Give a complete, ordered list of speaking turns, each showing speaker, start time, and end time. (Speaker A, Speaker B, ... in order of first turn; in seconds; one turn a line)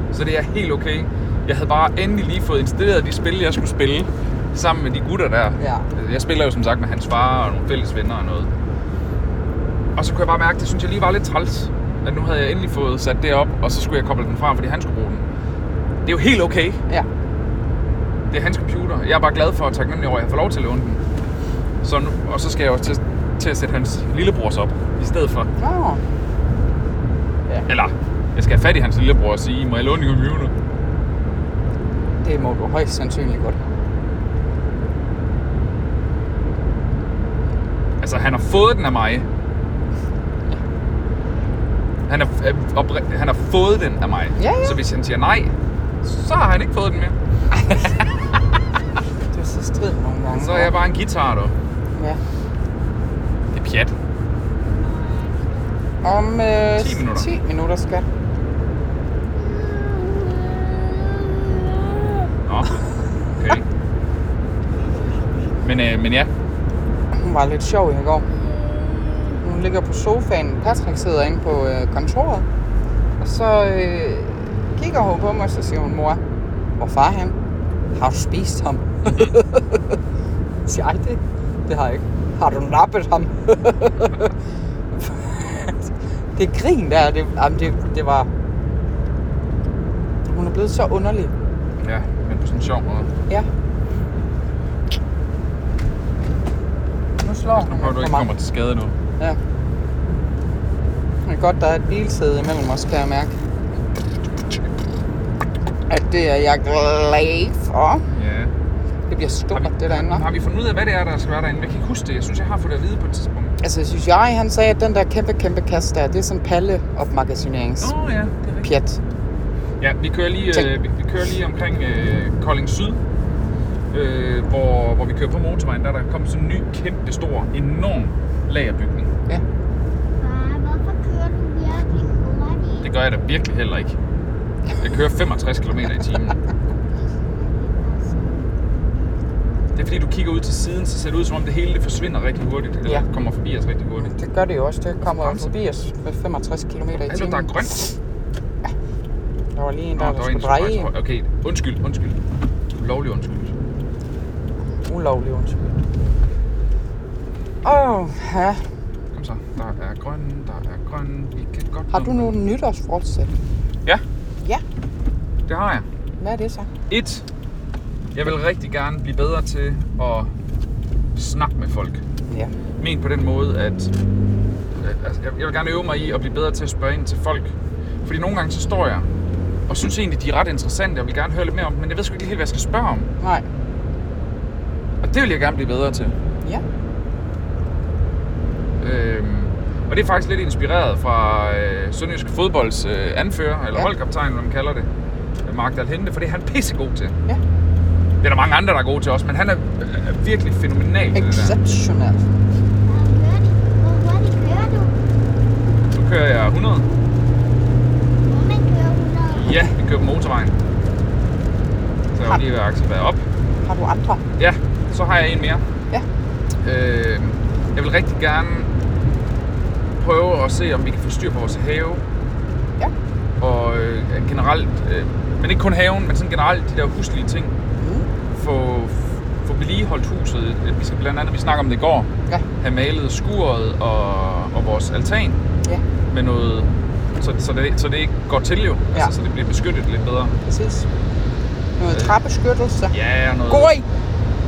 Speaker A: 0.1-8.5
Speaker B: 5.6-5.9
Speaker A: 10.0-15.2
Speaker A: 16.1-16.8
Speaker A: 18.3-21.0
Speaker A: 21.8-25.5
Speaker B: 25.6-26.0
Speaker A: 27.7-30.5
Speaker B: 32.2-33.6
Speaker A: 38.0-39.3
Speaker A: 42.1-48.4
Speaker B: 44.4-44.8
Speaker B: 49.3-50.8
Speaker A: 50.4-51.5
Speaker B: 52.0-52.2
Speaker A: 53.5-54.0
Speaker C: 54.6-55.8
Speaker B: 56.0-58.1
Speaker A: 56.8-57.3
Speaker C: 59.4-62.3
Speaker A: 62.5-62.8
Speaker A: 63.4-63.6
Speaker C: 64.8-65.6
Speaker A: 65.6-66.3
Speaker B: 67.1-68.3
Speaker C: 68.3-69.4
Speaker B: 69.4-72.5
Speaker B: 73.2-76.2
Speaker B: 76.8-77.4
Speaker B: 78.0-80.0
Speaker B: 80.7-84.3
Speaker B: 84.9-88.3
Speaker B: 90.3-91.3
Speaker A: 91.8-93.1
Speaker B: 97.2-98.3
Speaker A: 97.5-99.0
Speaker B: 101.3-103.3
Speaker B: 105.9-108.0
Speaker A: 108.2-108.5
Speaker B: 109.1-110.2
Speaker A: 109.5-113.6
Speaker B: 113.6-117.9
Speaker A: 117.8-118.7
Speaker B: 118.6-119.0
Speaker A: 119.8-123.0
Speaker A: 123.9-129.1
Speaker C: 130.2-132.9
Speaker A: 132.8-134.0
Speaker A: 134.8-136.4
Speaker C: 137.5-139.4
Speaker A: 139.8-144.1
Speaker B: 144.0-147.9
Speaker A: 145.1-145.5
Speaker A: 147.0-147.8
Speaker B: 149.6-150.9
Speaker A: 150.0-152.2
Speaker A: 152.8-153.5
Speaker B: 154.9-155.7
Speaker B: 157.6-158.6
Speaker A: 159.1-162.3
Speaker B: 161.9-163.3
Speaker A: 165.5-165.9
Speaker B: 166.2-166.7
Speaker A: 166.9-167.2
Speaker A: 168.1-170.3
Speaker A: 171.2-172.0
Speaker B: 172.3-172.6
Speaker A: 172.8-173.9
Speaker A: 174.8-177.5
Speaker A: 178.0-179.1
Speaker A: 179.7-183.1
Speaker A: 185.0-186.2
Speaker A: 188.8-194.9
Speaker A: 195.4-197.2
Speaker A: 198.2-201.6
Speaker B: 201.2-202.2
Speaker C: 202.9-205.0
Speaker A: 205.9-206.9
Speaker C: 208.3-209.6
Speaker A: 209.3-210.6
Speaker A: 212.1-213.2
Speaker B: 213.7-214.2
Speaker A: 214.4-215.6
Speaker A: 216.6-218.7
Speaker A: 220.0-222.0
Speaker A: 223.4-227.6
Speaker B: 227.8-228.1
Speaker A: 228.3-235.4
Speaker A: 236.1-240.3
Speaker B: 240.5-240.9
Speaker B: 241.8-242.9
Speaker A: 242.9-243.7
Speaker B: 243.5-243.8